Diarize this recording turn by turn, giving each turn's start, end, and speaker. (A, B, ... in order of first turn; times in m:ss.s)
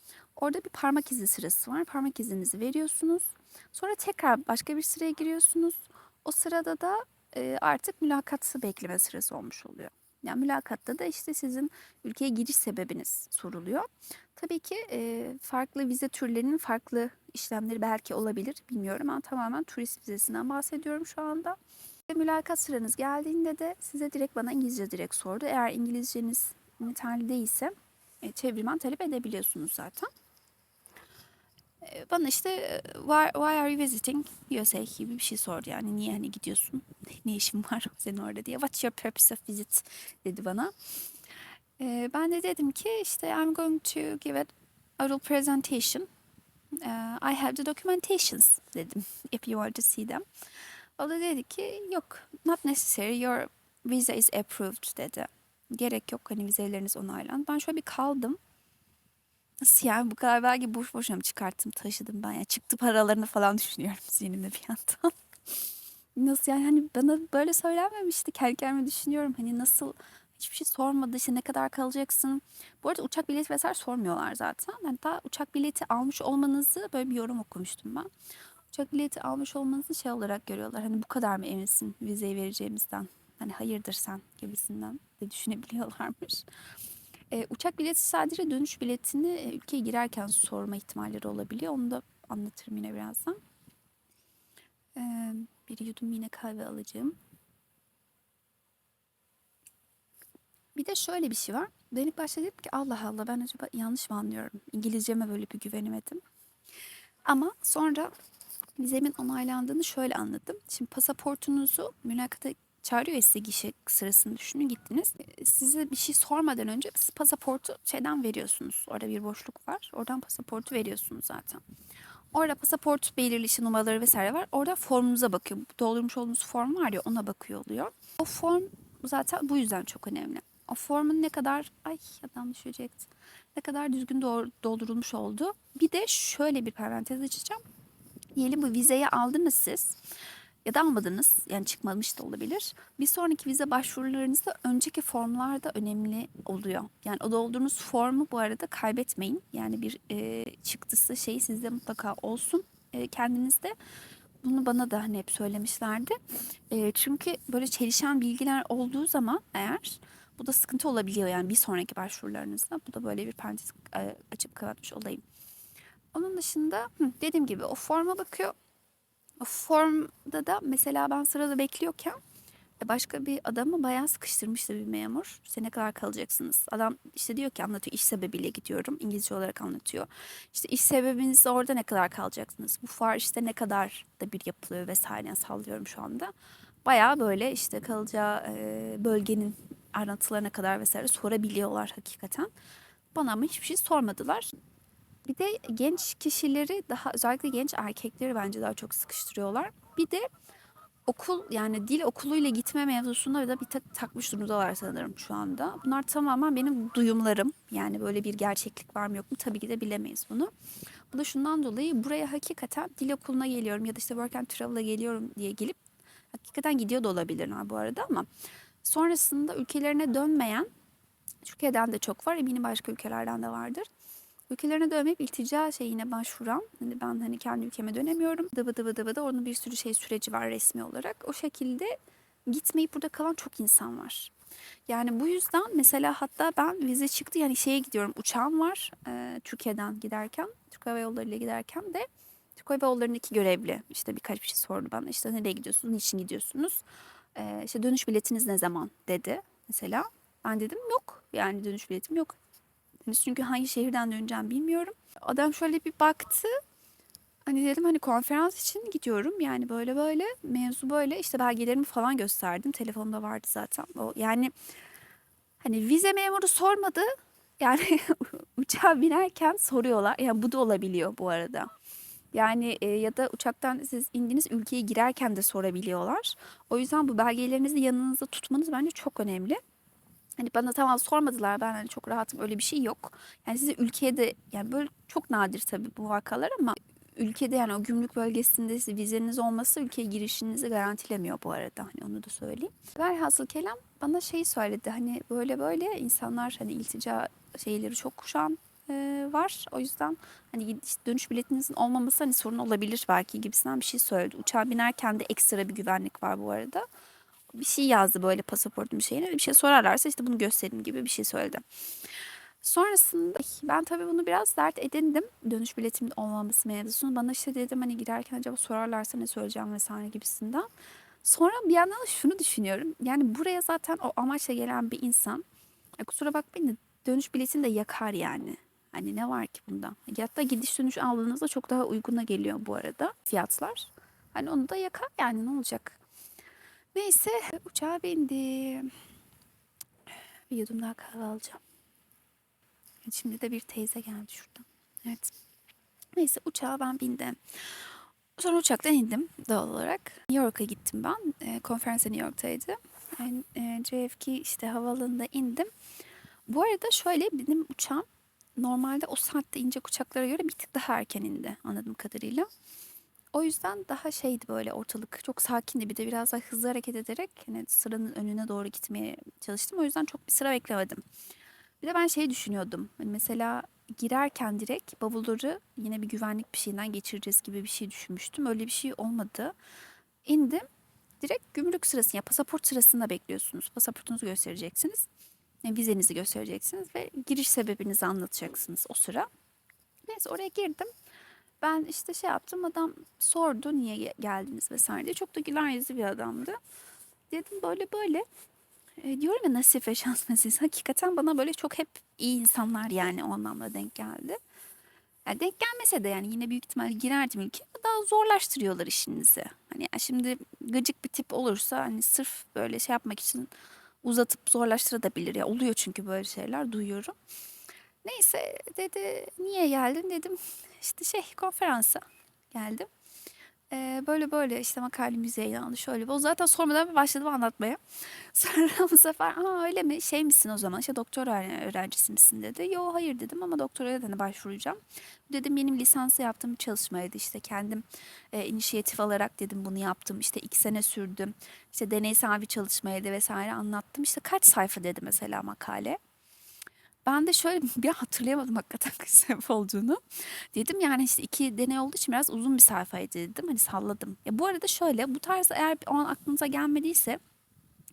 0:00.4-0:21.6 A
0:22.1-0:30.1 A
0:31.8-0:40.7 A
0:41.8-0:46.1 A
0:46.7-0:50.2 A
0:51.0-0:58.4 A
0:59.6-1:05.1 A
1:06.2-1:18.1 A
1:18.7-1:26.4 A
1:27.3-1:33.4 A
1:34.9-1:37.2 A
1:40.7-1:46.2 A
1:47.2-1:48.1 A
1:48.8-2:01.6 A
2:02.3-2:17.6 A
2:18.3-2:20.0 A
2:20.6-2:33.8 A
2:34.4-2:36.2 A
2:36.7-2:45.2 A
2:46.1-2:48.5 A
2:49.4-2:52.2 A
2:52.8-3:06.3 A
3:06.8-3:12.5 A
3:13.1-3:14.5 A
3:15.2-3:20.3 A
3:21.1-3:30.5 A
3:31.1-3:35.8 A
3:36.3-3:38.3 A
3:38.8-3:40.7 A
3:41.4-3:43.8 A
3:44.5-3:54.3 A
3:54.9-4:06.8 A
4:07.3-4:12.4 A
4:13.0-4:16.6 A
4:17.4-4:24.5 A
4:25.6-4:31.7 A
4:32.3-4:39.6 A
4:40.4-5:06.8 A
5:07.5-5:11.6 A
5:12.6-5:20.7 A
5:21.2-5:25.4 A
5:26.0-5:36.0 A
5:36.9-5:38.9 A
5:40.5-5:41.6 A
5:43.0-5:45.3 A
5:46.2-5:55.7 A
5:56.5-6:02.5 A
6:03.3-6:11.0 A
6:11.8-6:19.5 A
6:20.2-6:20.6 A
6:21.2-6:25.1 A
6:25.6-6:29.3 A
6:30.1-6:30.9 A
6:31.6-6:36.6 A
6:37.3-6:38.2 A
6:39.0-6:44.4 A
6:45.2-6:53.5 A
6:54.0-6:57.1 A
6:58.0-7:02.9 A
7:03.7-7:26.0 A
7:27.0-7:37.2 A